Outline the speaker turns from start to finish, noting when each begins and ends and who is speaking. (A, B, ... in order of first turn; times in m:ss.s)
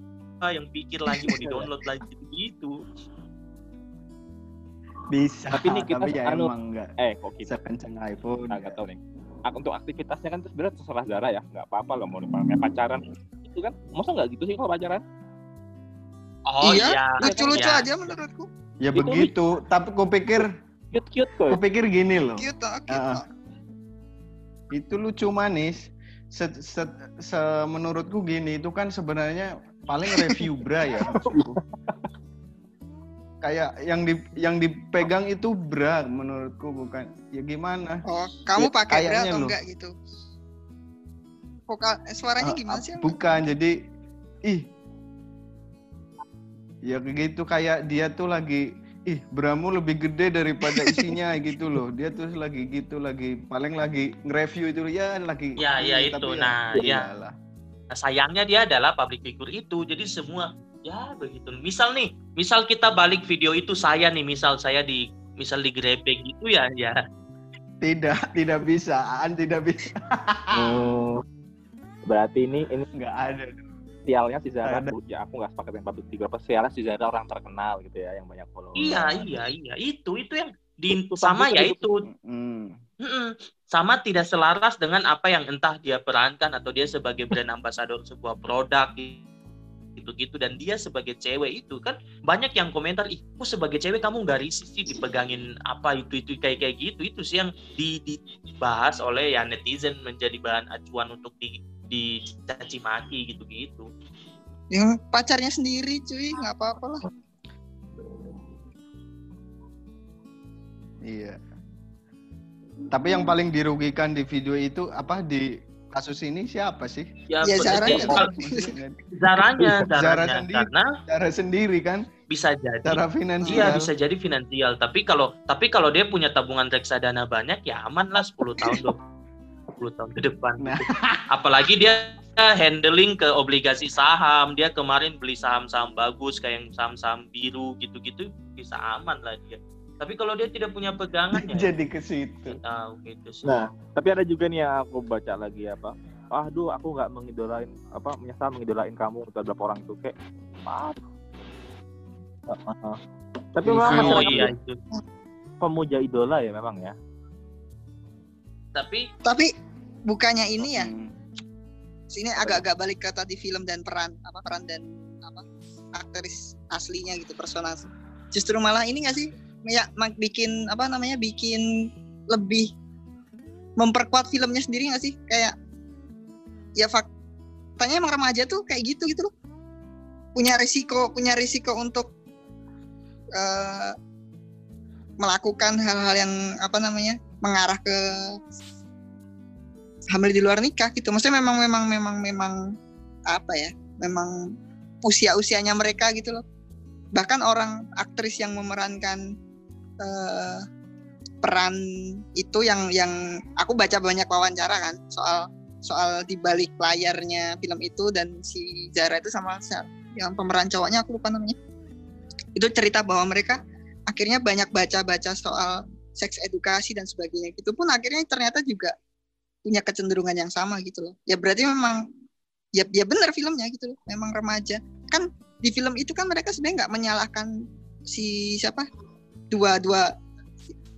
0:00.4-0:02.8 A
0:01.2-0:01.7 B
0:05.1-0:06.9 C
0:05.5-0:07.6 B
0:07.4-0:08.8 C
0:08.5-0:15.0 B
0:16.5-0:17.9 A
0:16.6-0:18.5 D
0:17.2-0:17.7 B
0:18.8-0:20.5 C
0:19.0-0:19.3 B
0:20.9-0:21.6 B
0:21.5-0:23.2 C
0:22.4-0:23.2 D
0:24.7-0:31.6 C
0:30.1-0:30.4 B
0:31.2-0:32.0 B
0:33.4-0:38.0 C
0:38.1-0:39.9 D
0:38.6-0:39.6 C
0:41.7-0:43.2 D
0:42.4-0:43.8 C
0:46.8-0:57.3 C
0:55.6-0:57.1 A
0:57.9-1:07.0 A
1:07.8-1:10.8 C
1:10.5-1:11.2 B
1:12.1-1:12.9 B
1:13.0-1:13.7 C
1:14.1-1:19.2 B
1:14.6-1:15.0 C
1:18.8-1:22.1 A
1:21.1-1:21.8 B
1:22.0-1:22.8 C
1:23.0-1:29.2 A
1:30.0-1:43.9 A
1:44.7-1:47.0 D
1:51.0-1:51.4 C
1:52.9-1:57.1 C
1:57.3-1:58.3 A
1:57.4-1:58.7 D
1:57.6-1:59.0 C
1:59.2-2:00.9 A
1:59.6-2:02.0 C
2:02.3-2:09.0 A
2:02.8-2:03.9 C
2:03.5-2:03.8 D
2:09.8-2:21.7 A
2:10.6-2:11.3 C
2:21.3-2:22.6 C
2:22.5-2:23.6 A
2:23.4-2:30.2 B
2:30.7-2:31.0 B
2:32.5-2:33.0 B
2:33.6-2:34.5 B
2:33.6-2:34.4 C
2:33.8-2:34.8 A
2:35.6-2:37.0 B
2:38.8-2:39.1 A
2:39.2-2:39.5 D
2:40.1-2:40.9 D
2:40.6-2:41.1 C
2:42.1-2:51.6 D
2:52.3-2:52.7 D
2:53.8-2:55.6 D
2:56.8-2:57.1 D
2:57.8-2:59.3 D
3:00.4-3:02.1 D
3:03.4-3:04.0 D
3:05.2-3:08.3 D
3:10.1-3:12.6 D
3:13.3-3:14.4 D
3:15.0-3:16.4 D
3:17.2-3:19.2 D
3:20.0-3:20.6 D
3:21.4-3:21.8 D
3:22.4-3:31.6 D
3:32.6-3:38.9 D
3:39.7-3:42.0 D
3:42.8-3:47.5 D
3:48.1-3:48.9 D
3:49.5-3:50.1 D